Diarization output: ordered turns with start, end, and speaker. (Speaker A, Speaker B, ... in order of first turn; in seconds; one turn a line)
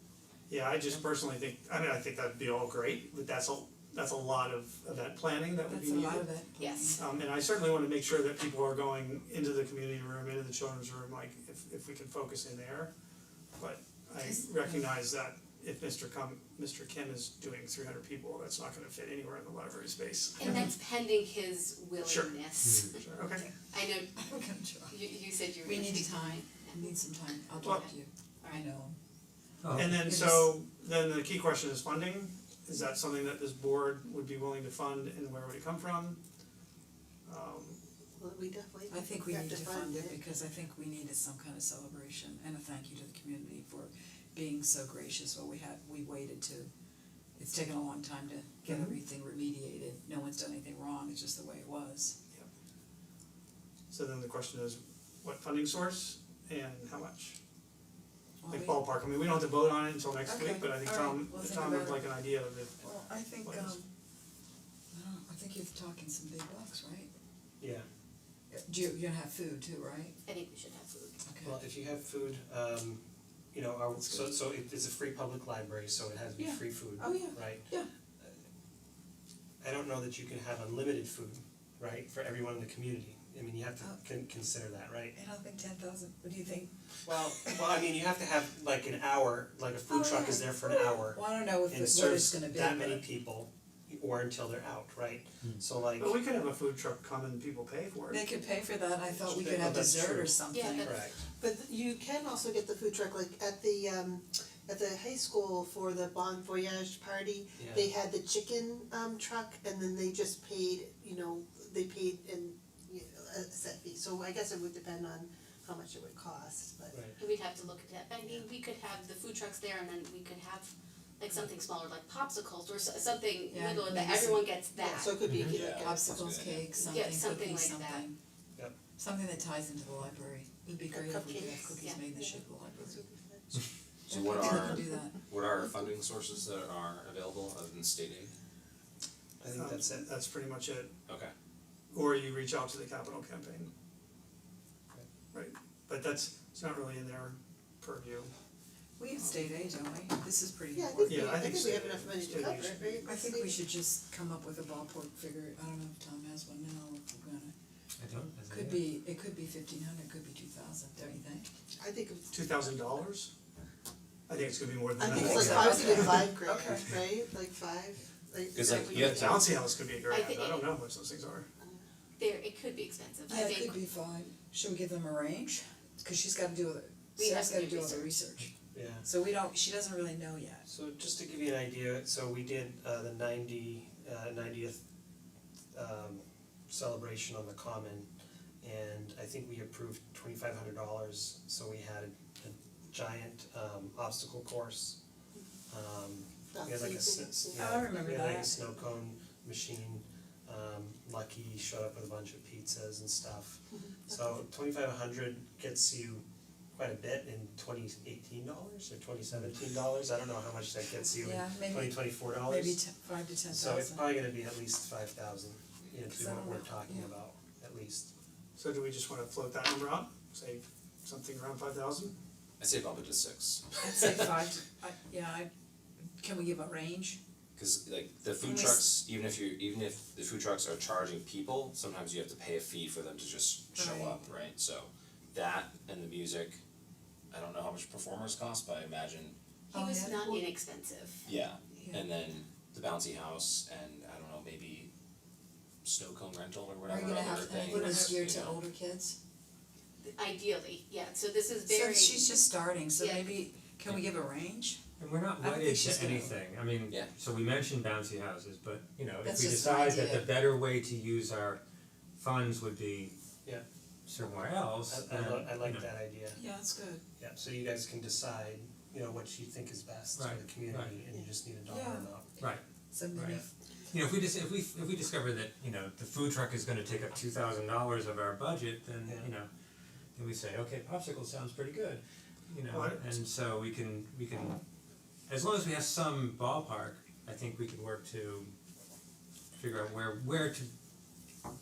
Speaker A: 0.5-6.3
Speaker B: 5.6-7.2
Speaker C: 6.6-7.0
Speaker A: 7.0-12.9
Speaker A: 13.5-20.6
Speaker B: 14.2-14.9
Speaker C: 20.4-23.0
Speaker A: 22.0-23.5
Speaker D: 22.6-23.0
Speaker C: 23.7-24.2
Speaker B: 24.1-25.1
Speaker C: 24.9-27.0
Speaker B: 25.6-29.0
Speaker C: 27.6-27.9
Speaker A: 27.6-27.9
Speaker D: 29.6-30.0
Speaker A: 29.8-36.2
Speaker B: 30.0-30.5
Speaker A: 37.2-37.8
Speaker E: 38.2-40.2
Speaker B: 38.9-46.7
Speaker B: 47.4-52.2
Speaker A: 48.6-49.0
Speaker A: 53.9-57.4
Speaker B: 58.4-58.8
Speaker A: 58.5-62.9
Speaker B: 60.2-62.2
Speaker B: 62.8-63.9
Speaker A: 63.4-63.8
Speaker B: 64.9-67.1
Speaker F: 67.6-67.8
Speaker B: 68.5-70.2
Speaker C: 70.2-71.2
Speaker B: 71.3-71.6
Speaker F: 71.4-73.0
Speaker F: 73.5-78.4
Speaker B: 74.0-74.3
Speaker B: 76.4-77.9
Speaker F: 79.6-85.2
Speaker B: 85.1-86.7
Speaker F: 87.1-96.2
Speaker B: 87.4-87.6
Speaker B: 89.9-93.1
Speaker A: 96.0-98.3
Speaker B: 98.1-101.0
Speaker F: 99.3-101.2
Speaker C: 100.5-101.1
Speaker E: 101.2-117.0
Speaker F: 107.6-107.9
Speaker F: 116.9-117.2
Speaker C: 117.2-125.6
Speaker B: 123.5-124.5
Speaker E: 124.7-126.2
Speaker D: 125.3-125.5
Speaker G: 125.4-126.7
Speaker B: 125.8-128.2
Speaker C: 126.8-128.1
Speaker B: 129.0-133.0
Speaker E: 130.9-133.6
Speaker G: 134.1-138.3
Speaker B: 134.1-135.2
Speaker F: 139.4-140.1
Speaker A: 139.5-140.9
Speaker A: 141.9-143.7
Speaker A: 145.3-148.3
Speaker B: 149.0-151.3
Speaker A: 149.1-149.5
Speaker E: 150.7-153.6
Speaker A: 151.1-153.0
Speaker B: 153.0-157.5
Speaker D: 158.0-158.9
Speaker B: 158.5-161.5
Speaker E: 161.8-162.3
Speaker A: 162.3-163.3
Speaker A: 164.3-166.2
Speaker E: 165.0-169.5
Speaker G: 165.2-166.0
Speaker D: 165.3-165.8
Speaker B: 165.6-166.9
Speaker G: 168.5-169.5
Speaker A: 169.0-171.5
Speaker C: 170.1-170.7
Speaker C: 172.2-173.8
Speaker B: 173.3-178.5
Speaker C: 177.2-178.1
Speaker F: 178.7-179.1
Speaker B: 179.0-180.7
Speaker F: 180.7-184.8
Speaker F: 185.7-188.1
Speaker F: 188.6-195.0
Speaker F: 195.7-212.8
Speaker E: 196.5-197.9
Speaker B: 197.6-198.6
Speaker E: 203.7-204.2
Speaker B: 211.2-214.2
Speaker F: 213.5-218.1
Speaker B: 216.1-217.1
Speaker A: 218.6-222.2
Speaker G: 222.6-224.2
Speaker B: 223.8-225.5
Speaker B: 226.2-227.2
Speaker G: 227.6-236.6
Speaker B: 228.4-228.8
Speaker B: 233.7-234.2
Speaker G: 237.3-239.3
Speaker B: 239.7-240.5
Speaker C: 239.7-241.3
Speaker G: 241.3-244.9
Speaker G: 245.8-248.6
Speaker B: 246.9-249.2
Speaker C: 250.0-253.4
Speaker B: 251.7-254.8
Speaker D: 255.0-261.6
Speaker B: 255.4-256.4
Speaker B: 259.2-260.3
Speaker D: 262.1-263.1
Speaker D: 264.1-265.9
Speaker F: 264.9-266.4
Speaker B: 266.3-267.0
Speaker F: 267.2-272.3
Speaker D: 270.1-271.0
Speaker B: 271.7-272.1
Speaker D: 272.4-279.5
Speaker B: 272.9-273.5
Speaker F: 279.1-279.3
Speaker D: 280.1-284.6
Speaker A: 282.7-283.1
Speaker D: 285.3-288.5
Speaker D: 289.6-290.7